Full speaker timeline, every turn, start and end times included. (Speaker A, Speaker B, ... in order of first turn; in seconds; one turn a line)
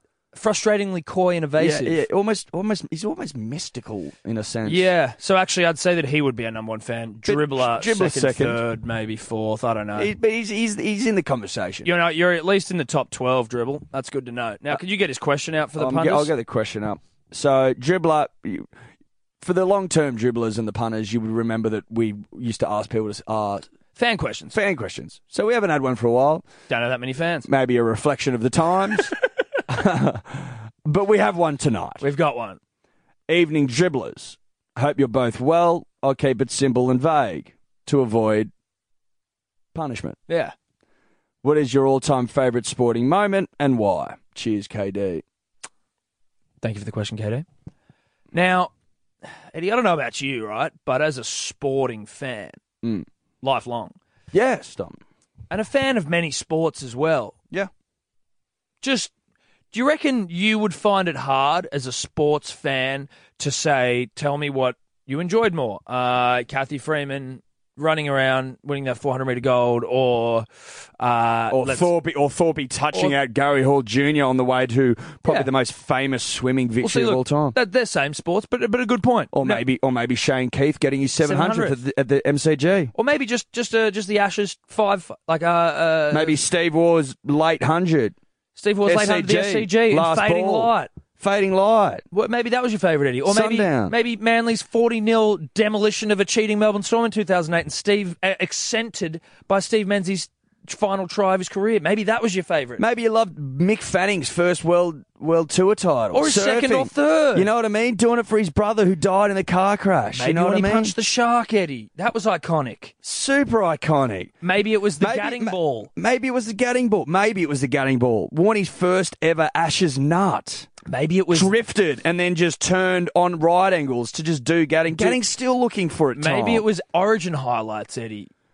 Speaker A: 0.3-2.0
Speaker B: 1.6-4.9
Speaker A: 4.7-10.1
Speaker B: 7.3-8.6
Speaker B: 10.0-11.9
Speaker A: 11.8-16.3
Speaker B: 15.8-18.7
Speaker B: 19.4-23.6
Speaker A: 23.9-24.6
Speaker B: 24.5-26.5
Speaker A: 26.7-27.5
Speaker B: 27.5-29.1
Speaker B: 29.7-32.0
Speaker A: 32.0-32.6
Speaker B: 33.3-38.5
Speaker B: 39.7-40.2
Speaker A: 40.3-40.5
Speaker B: 41.4-45.2
Speaker A: 46.6-47.5
Speaker A: 48.3-48.7
Speaker A: 49.5-52.6
Speaker B: 52.8-53.1
Speaker A: 53.4-54.0
Speaker B: 54.3-55.0
Speaker A: 55.5-57.4
Speaker A: 58.8-59.1
Speaker A: 59.7-70.5
Speaker A: 71.0-71.9
Speaker B: 71.5-77.6
Speaker A: 76.8-79.7
Speaker B: 79.3-82.9
Speaker A: 81.2-81.8
Speaker A: 83.0-86.4
Speaker B: 86.1-88.2
Speaker A: 88.6-90.9
Speaker B: 88.8-92.0
Speaker A: 92.1-102.8
Speaker B: 93.2-94.0
Speaker B: 102.8-111.0
Speaker A: 106.1-107.5
Speaker A: 110.1-112.9
Speaker B: 113.0-114.3
Speaker A: 114.4-115.9
Speaker B: 115.0-120.7
Speaker A: 120.9-121.5
Speaker B: 121.3-126.7
Speaker A: 124.9-125.2
Speaker A: 126.2-128.3